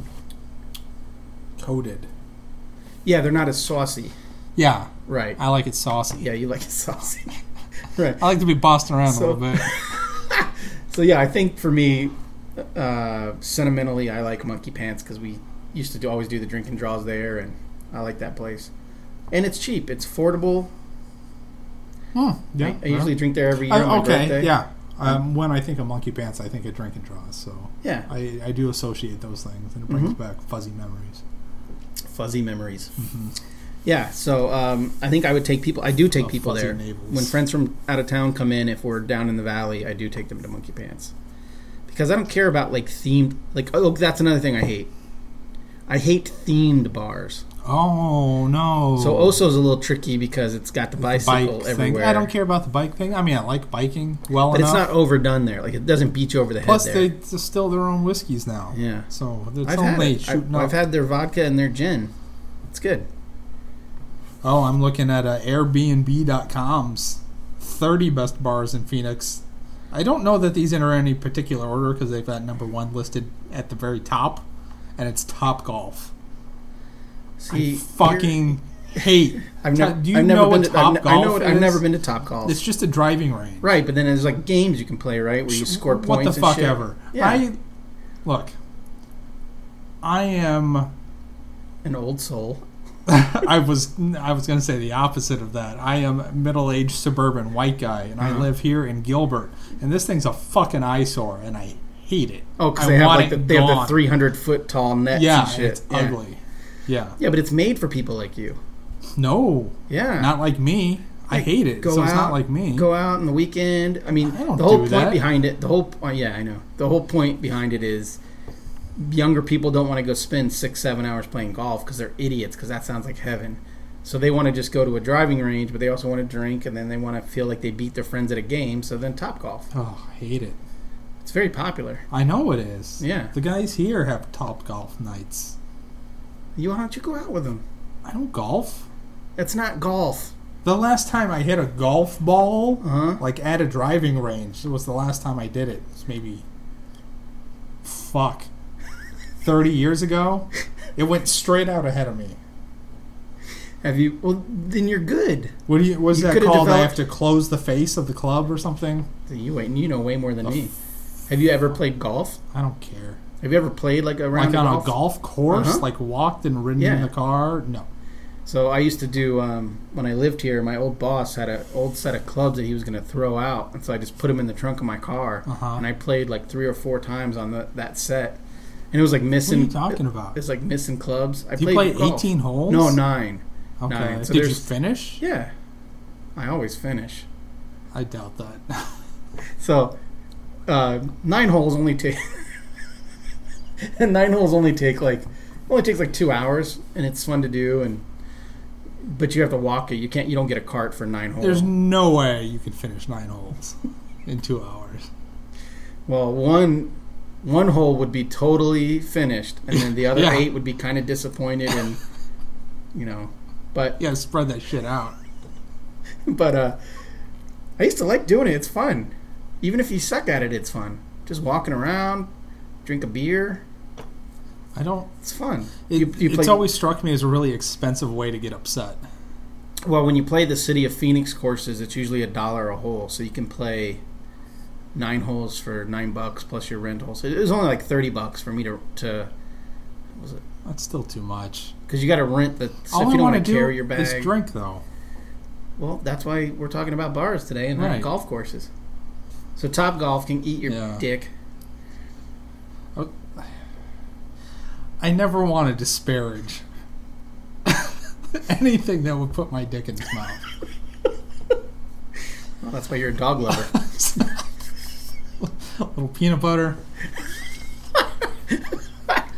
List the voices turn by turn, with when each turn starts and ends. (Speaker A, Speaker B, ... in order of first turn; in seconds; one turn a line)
Speaker A: 1.6-2.1
Speaker B: 3.0-4.1
Speaker A: 4.5-6.2
Speaker B: 5.1-5.4
Speaker B: 6.2-7.4
Speaker B: 7.9-8.2
Speaker A: 8.2-9.7
Speaker B: 9.1-18.7
Speaker B: 19.3-20.7
Speaker A: 22.1-31.2
Speaker B: 22.6-24.5
Speaker B: 27.8-28.1
Speaker B: 29.9-30.1
Speaker B: 32.0-32.9
Speaker A: 33.0-33.3
Speaker B: 33.8-41.1
Speaker A: 36.2-37.3
Speaker B: 41.9-44.9
Speaker B: 45.9-47.4
Speaker A: 47.6-49.4
Speaker B: 49.0-52.3
Speaker A: 51.0-54.9
Speaker B: 54.5-57.1
Speaker A: 56.6-60.7
Speaker B: 58.7-59.1
Speaker B: 59.6-62.1
Speaker B: 62.7-63.1
Speaker A: 64.4-74.4
Speaker A: 75.0-76.1
Speaker B: 77.4-78.4
Speaker A: 77.5-81.8
Speaker B: 79.4-82.6
Speaker A: 82.4-83.7
Speaker B: 83.6-87.4
Speaker A: 85.5-87.6
Speaker A: 88.2-88.5
Speaker A: 90.0-90.9
Speaker B: 91.8-92.6
Speaker A: 93.0-104.0
Speaker B: 98.2-98.5
Speaker B: 102.6-106.2
Speaker A: 105.1-107.2
Speaker B: 107.2-108.6
Speaker A: 109.2-112.9
Speaker B: 109.9-110.3
Speaker B: 111.3-118.2
Speaker A: 114.2-115.2
Speaker B: 119.0-129.7
Speaker A: 129.7-130.6
Speaker B: 131.2-132.0
Speaker A: 132.1-135.6
Speaker B: 133.0-133.3
Speaker B: 136.6-137.6
Speaker A: 138.0-138.8
Speaker B: 139.4-140.3
Speaker A: 140.6-146.4
Speaker B: 142.8-143.2
Speaker A: 147.8-148.5
Speaker A: 149.4-152.4
Speaker B: 153.8-155.6
Speaker A: 155.7-159.1
Speaker B: 156.1-156.9
Speaker B: 159.3-160.7
Speaker B: 161.3-162.4
Speaker A: 162.5-163.2
Speaker B: 163.4-164.9
Speaker A: 164.3-167.8
Speaker B: 165.5-165.8
Speaker B: 166.8-167.1
Speaker B: 168.4-178.4
Speaker A: 175.4-175.8
Speaker B: 178.9-185.5
Speaker A: 179.4-180.3
Speaker A: 181.6-183.0
Speaker A: 183.8-185.2
Speaker B: 186.3-187.2
Speaker A: 187.9-188.9
Speaker B: 189.6-190.0
Speaker B: 190.7-192.5
Speaker B: 193.8-198.0
Speaker B: 199.0-201.7
Speaker A: 201.4-205.1
Speaker B: 206.1-212.0
Speaker A: 209.8-210.5
Speaker B: 212.9-214.0
Speaker A: 214.0-215.2
Speaker B: 216.2-216.8
Speaker B: 217.8-222.3
Speaker B: 222.8-223.6
Speaker A: 224.7-225.1
Speaker B: 225.2-226.6
Speaker A: 225.9-229.0
Speaker B: 229.8-234.0
Speaker B: 234.9-239.3
Speaker B: 240.2-240.4
Speaker A: 240.6-241.7
Speaker B: 241.9-244.3
Speaker A: 242.9-244.8
Speaker B: 245.8-248.7
Speaker A: 247.8-248.1
Speaker B: 249.6-251.3
Speaker A: 250.7-251.0
Speaker A: 252.9-253.6
Speaker A: 255.0-256.6
Speaker A: 257.6-260.5
Speaker B: 262.6-263.8
Speaker A: 263.7-264.3
Speaker A: 265.4-266.8
Speaker B: 268.5-269.2